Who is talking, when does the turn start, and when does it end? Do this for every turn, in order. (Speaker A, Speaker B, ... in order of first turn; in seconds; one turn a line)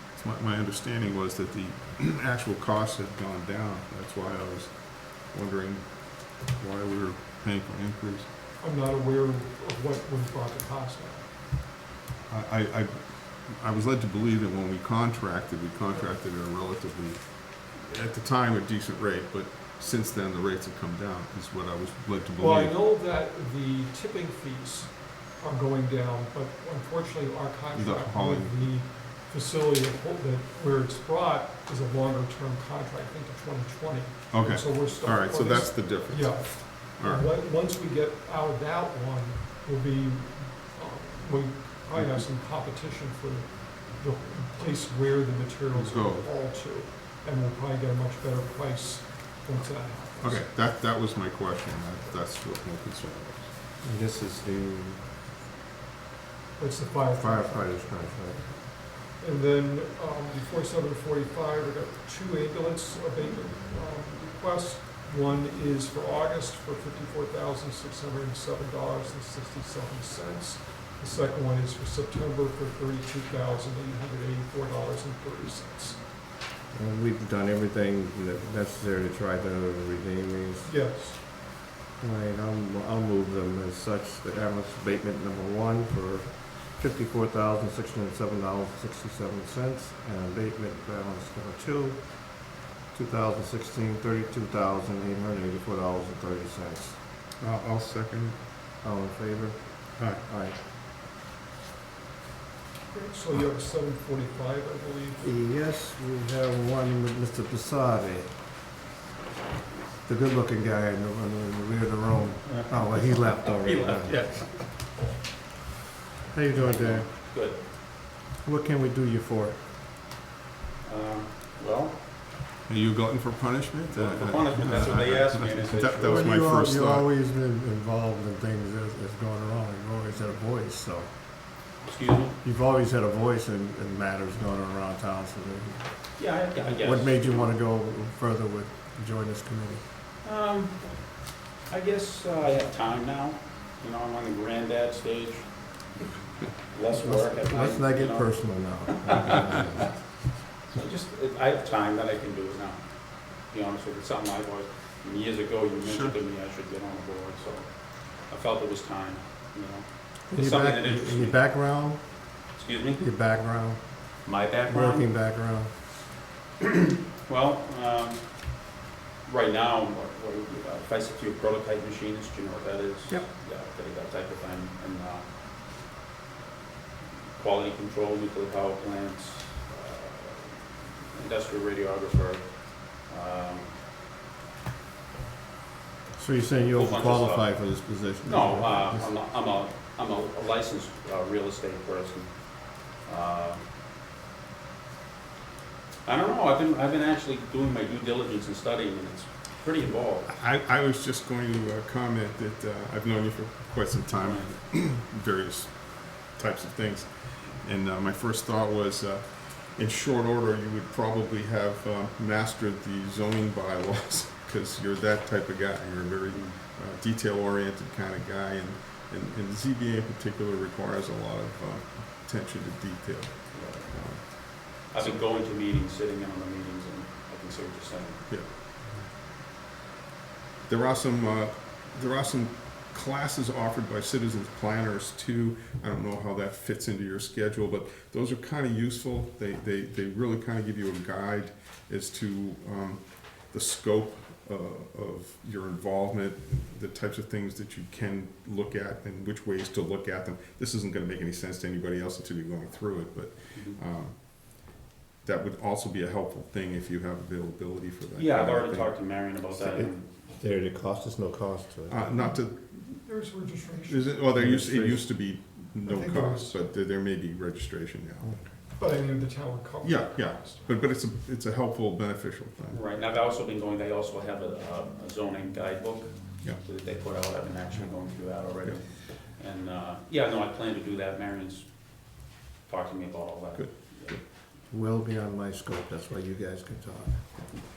Speaker A: 0.1-8.3
Speaker B: 8.6-11.3
Speaker A: 12.3-22.8
Speaker B: 22.4-50.5
Speaker A: 27.7-28.7
Speaker A: 34.3-37.3
Speaker A: 42.0-42.2
Speaker A: 45.7-46.3
Speaker A: 50.2-53.5
Speaker C: 53.8-55.0
Speaker B: 56.6-57.8
Speaker C: 57.2-58.5
Speaker B: 59.1-76.0
Speaker C: 76.7-80.7
Speaker B: 80.7-81.2
Speaker C: 82.0-92.0
Speaker C: 92.9-97.0
Speaker A: 97.4-98.4
Speaker C: 98.8-100.6
Speaker B: 102.9-105.3
Speaker C: 105.2-108.3
Speaker C: 110.1-114.6
Speaker D: 112.4-114.5
Speaker C: 116.3-117.1
Speaker D: 116.5-117.6
Speaker C: 118.4-119.6
Speaker D: 120.8-122.0
Speaker A: 122.7-127.1
Speaker D: 123.9-126.4
Speaker C: 126.0-131.1
Speaker D: 131.8-132.4
Speaker C: 132.4-135.8
Speaker D: 136.2-137.5
Speaker C: 136.6-139.8
Speaker D: 140.2-145.5
Speaker D: 146.7-149.4
Speaker C: 146.9-149.9
Speaker D: 150.7-161.4
Speaker A: 155.8-156.1
Speaker C: 160.3-162.1
Speaker D: 162.6-163.0
Speaker C: 163.0-163.8
Speaker D: 164.2-165.1
Speaker C: 164.7-165.7
Speaker D: 166.7-168.2
Speaker D: 169.2-175.3
Speaker D: 177.4-183.7
Speaker C: 186.2-189.1
Speaker D: 186.7-187.6
Speaker D: 188.2-193.6
Speaker D: 196.1-200.3
Speaker A: 200.3-225.2
Speaker D: 204.1-204.5
Speaker D: 223.5-228.4
Speaker A: 230.7-259.2
Speaker D: 258.2-260.1
Speaker C: 259.5-262.2
Speaker A: 261.9-262.9
Speaker B: 262.9-264.2
Speaker A: 263.9-268.5
Speaker C: 264.4-265.1
Speaker B: 265.8-266.6
Speaker B: 268.8-270.6
Speaker A: 269.8-272.8
Speaker D: 272.7-284.2
Speaker A: 283.6-284.2
Speaker C: 284.7-287.3